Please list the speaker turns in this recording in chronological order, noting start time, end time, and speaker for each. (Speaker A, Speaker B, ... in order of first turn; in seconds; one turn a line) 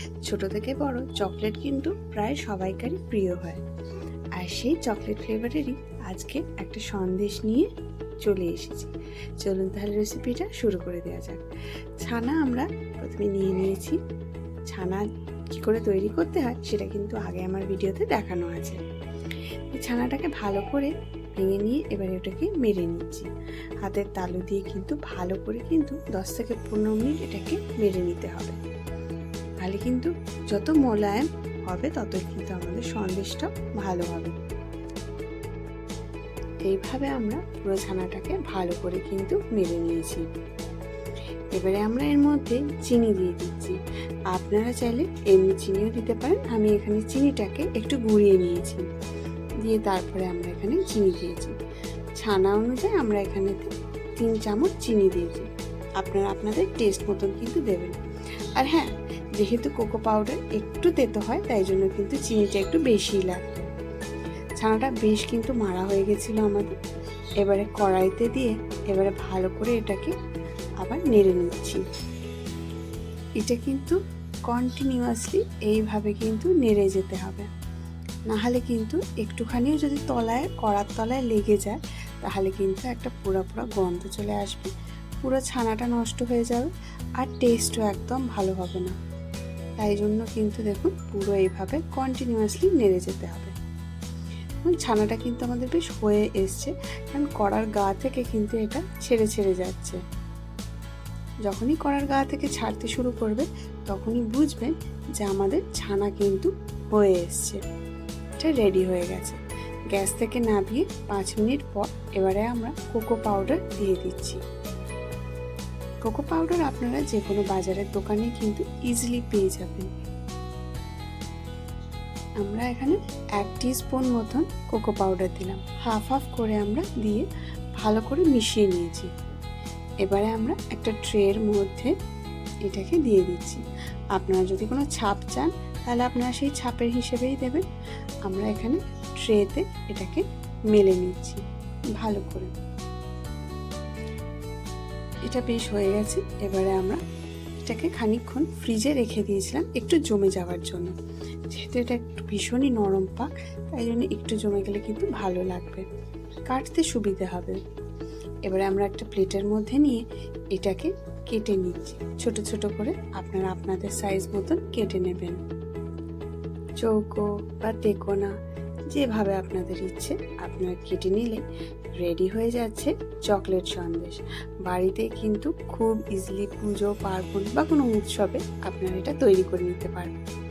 Speaker A: 0.2-3.6
Speaker A: 4.4-7.7
Speaker A: 8.2-11.4
Speaker A: 12.0-14.0
Speaker A: 14.7-18.8
Speaker A: 19.7-23.3
Speaker A: 23.8-28.6
Speaker A: 29.6-34.4
Speaker A: 36.7-40.2
Speaker A: 41.5-43.8
Speaker A: 44.3-48.9
Speaker A: 49.6-51.5
Speaker A: 52.2-58.0
Speaker A: 58.5-63.7
Speaker A: 64.6-66.7
Speaker A: 67.4-70.1
Speaker A: 70.8-71.8
Speaker A: 73.4-77.5
Speaker A: 78.3-89.0
Speaker A: 89.8-93.5
Speaker A: 94.6-100.0
Speaker A: 101.5-107.6
Speaker A: 108.4-109.4
Speaker A: 109.9-114.4
Speaker A: 116.0-119.9
Speaker A: 122.4-127.3
Speaker A: 127.8-129.1
Speaker A: 130.0-131.9
Speaker A: 132.7-133.6
Speaker A: 134.2-137.7
Speaker A: 138.3-141.4
Speaker A: 142.0-142.5
Speaker A: 145.3-147.0
Speaker A: 147.7-150.9
Speaker A: 151.5-155.8
Speaker A: 156.5-157.6
Speaker A: 158.5-165.4
Speaker A: 166.8-168.3
Speaker A: 168.9-171.4
Speaker A: 172.0-180.2